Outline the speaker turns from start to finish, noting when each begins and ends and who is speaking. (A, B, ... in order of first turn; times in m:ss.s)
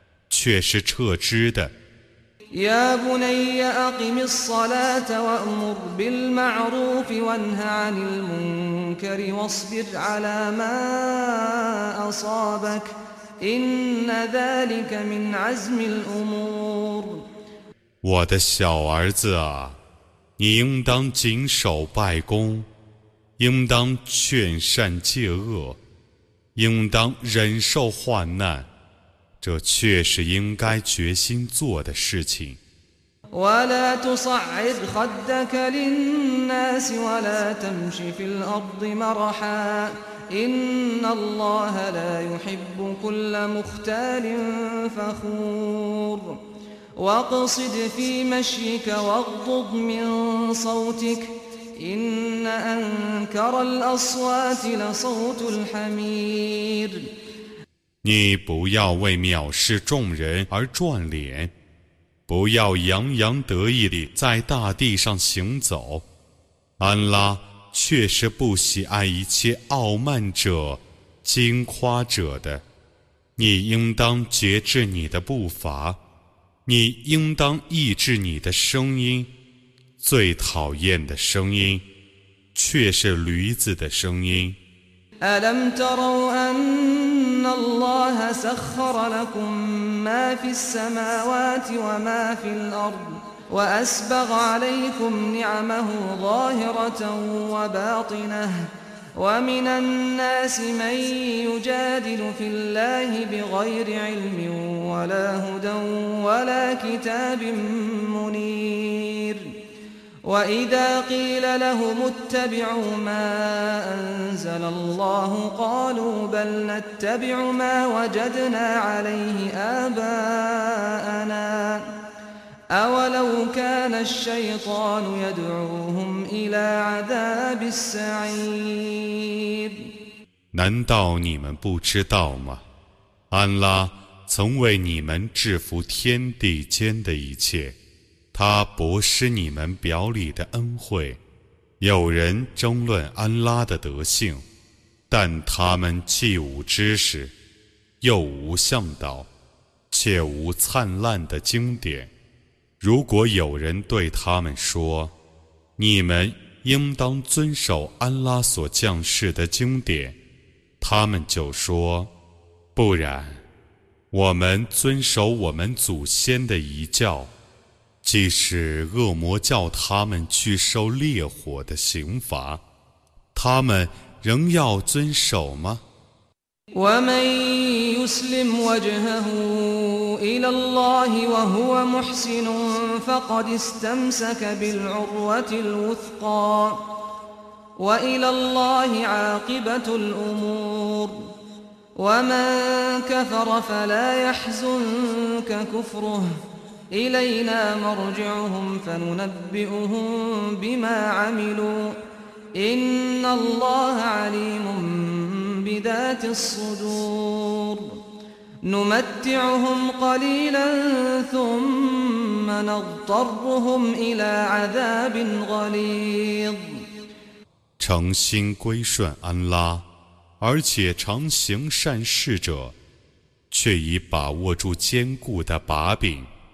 0:00.3-0:01.7 A
0:02.5-0:17.2 B
0:18.0-0:19.8 A
0:20.4-0:22.7 A
0:23.4-0:25.8 A
0:26.6-0:28.7 A
0:29.4-0:32.6 A
0:33.3-0:46.4 B
0:47.0-0:57.1 B
0:58.0-1:01.5 A
1:02.3-1:06.1 A
1:06.8-1:12.6 A
1:13.4-1:16.0 A
1:16.7-1:19.3 A
1:20.0-1:21.9 A
1:22.5-1:24.6 A
1:25.2-1:49.5 B
1:50.2-2:01.9 B
2:02.7-2:09.8 B
2:10.5-2:12.6 A
2:13.3-2:17.8 A
2:18.3-2:21.2 A
2:21.8-2:24.4 A
2:25.1-2:27.4 A
2:28.0-2:29.3 A
2:29.9-2:32.1 A
2:32.8-2:35.1 A
2:35.8-2:40.2 A
2:40.8-2:42.1 A
2:42.8-2:43.4 A
2:44.1-2:47.3 A
2:48.0-2:52.6 A
2:53.4-2:55.8 A
2:56.8-3:06.8 B
3:07.8-3:11.3 B
3:12.0-3:16.3 B
3:16.9-3:22.0 B
3:22.6-3:28.0 B
3:28.6-3:36.8 B
3:37.8-3:39.9 A
3:40.4-3:42.8 A
3:43.5-3:46.3 A